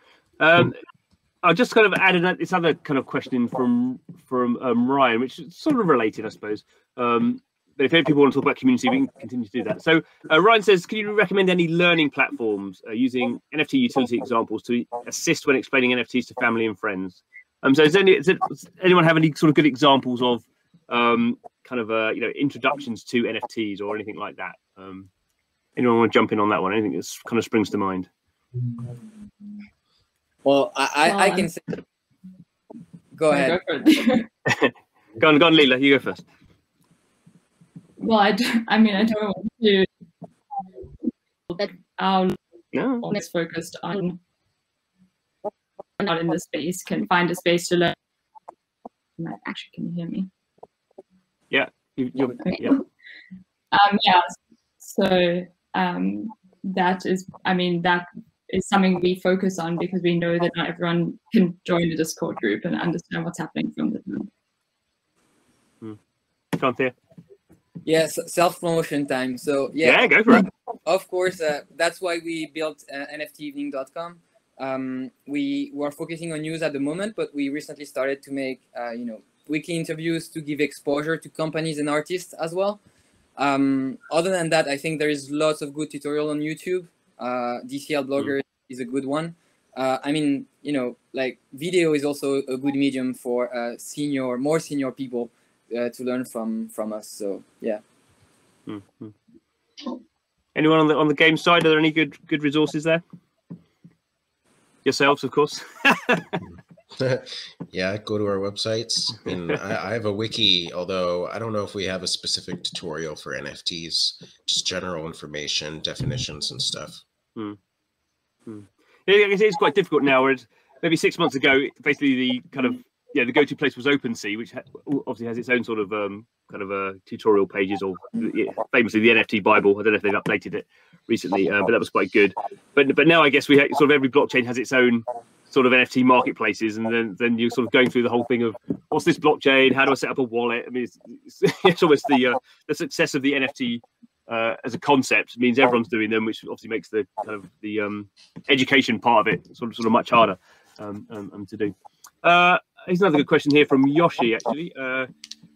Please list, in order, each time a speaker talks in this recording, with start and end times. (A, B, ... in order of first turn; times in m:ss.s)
0:00.4-0:00.8 A
0:01.4-0:25.1 A
0:25.8-0:28.1 A
0:30.4-0:31.6 B
0:31.0-0:31.5 C
0:33.2-0:33.6 B
0:33.3-0:34.3 C
0:34.5-0:36.2 A
0:38.0-0:39.9 C
0:41.5-0:42.4 C
0:42.7-0:43.1 A
0:43.0-0:44.2 C
0:46.0-0:48.0 C
0:49.2-0:50.3 C
0:51.5-0:52.8 A
0:52.4-0:52.8 C
0:53.7-1:04.3 C
1:06.6-1:07.0 A
1:07.8-1:22.8 B
1:09.8-1:10.5 A
1:23.4-1:37.8 B
1:38.7-1:39.1 A
1:40.6-1:43.0 A
1:44.8-1:46.4 A
1:46.9-1:57.0 D
1:49.3-1:49.6 A
1:58.5-2:35.1 A